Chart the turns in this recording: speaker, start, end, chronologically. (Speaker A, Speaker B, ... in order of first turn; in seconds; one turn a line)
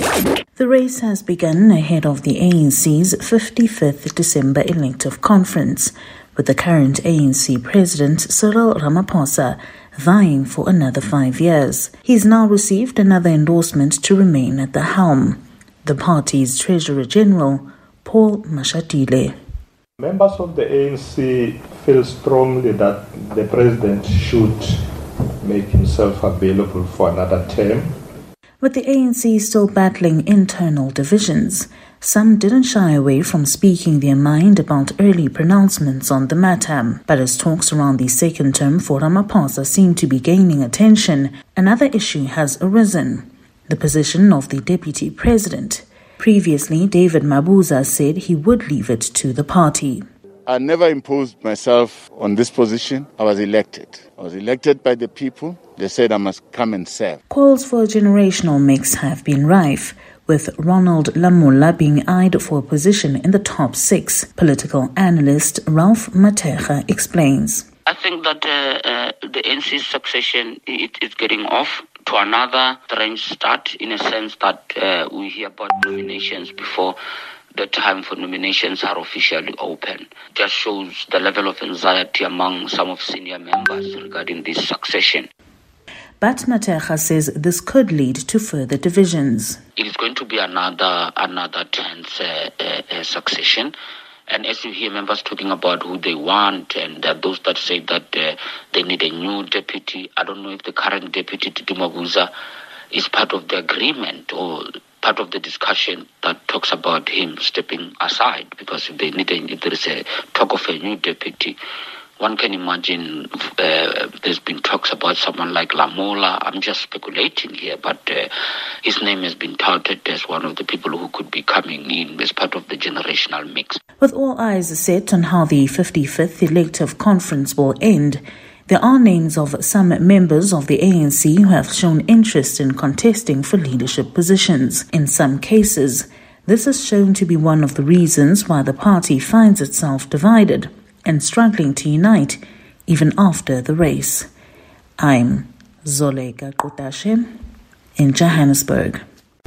Speaker A: 0.6-19.4
Speaker B: 20.0-27.9
Speaker A: 28.6-50.0
Speaker C: 50.5-57.2
Speaker A: 57.3-67.7
Speaker D: 67.9-77.0
Speaker D: 77.5-85.3
Speaker A: 86.2-89.6
Speaker D: 89.8-93.7
Speaker D: 94.3-102.3
Speaker D: 102.9-111.6
Speaker D: 112.2-118.3
Speaker D: 118.8-123.8
Speaker A: 124.0-144.3
Speaker A: 145.0-147.3
Speaker A: 148.0-149.0